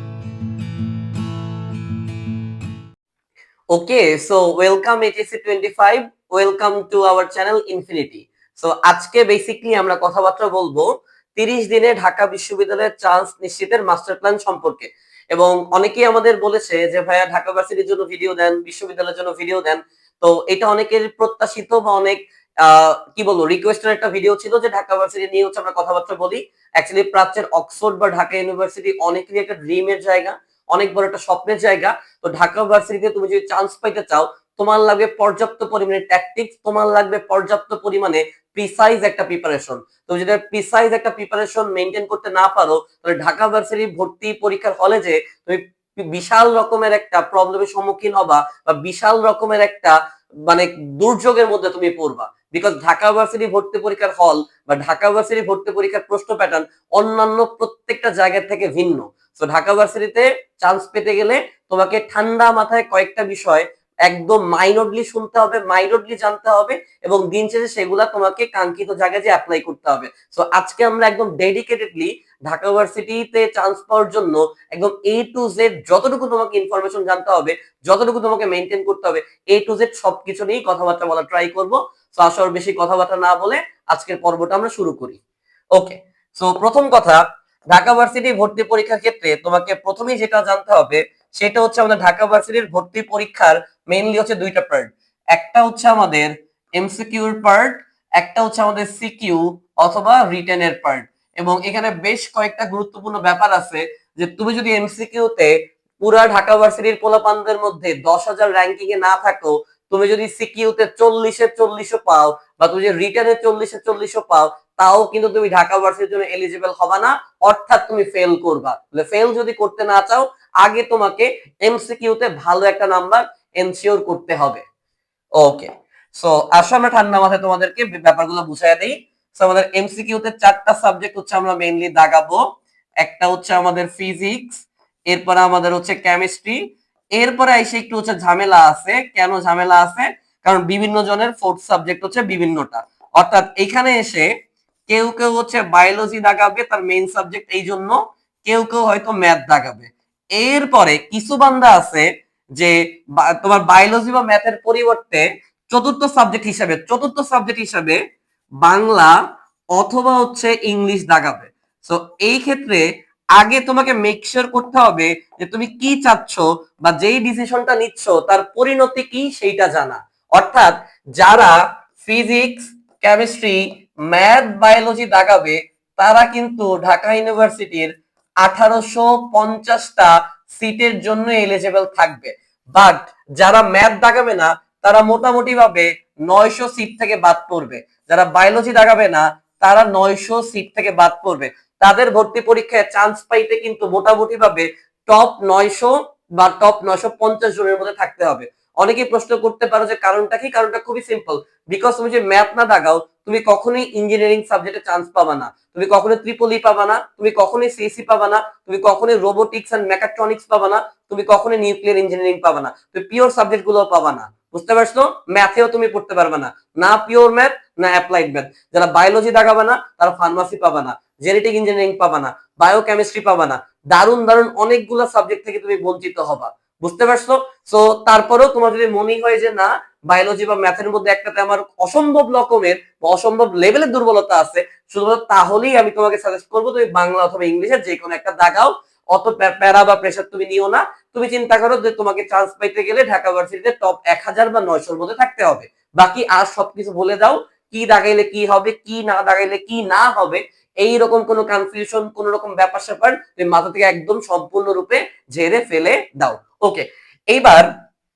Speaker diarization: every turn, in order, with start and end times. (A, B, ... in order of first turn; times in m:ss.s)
0:03.7-1:25.2 A
1:25.8-2:04.6 A
2:05.4-2:12.4 A
2:13.0-2:24.3 A
2:24.9-2:38.0 A
2:38.6-2:39.1 A
2:39.8-2:57.9 A
2:58.4-4:17.7 A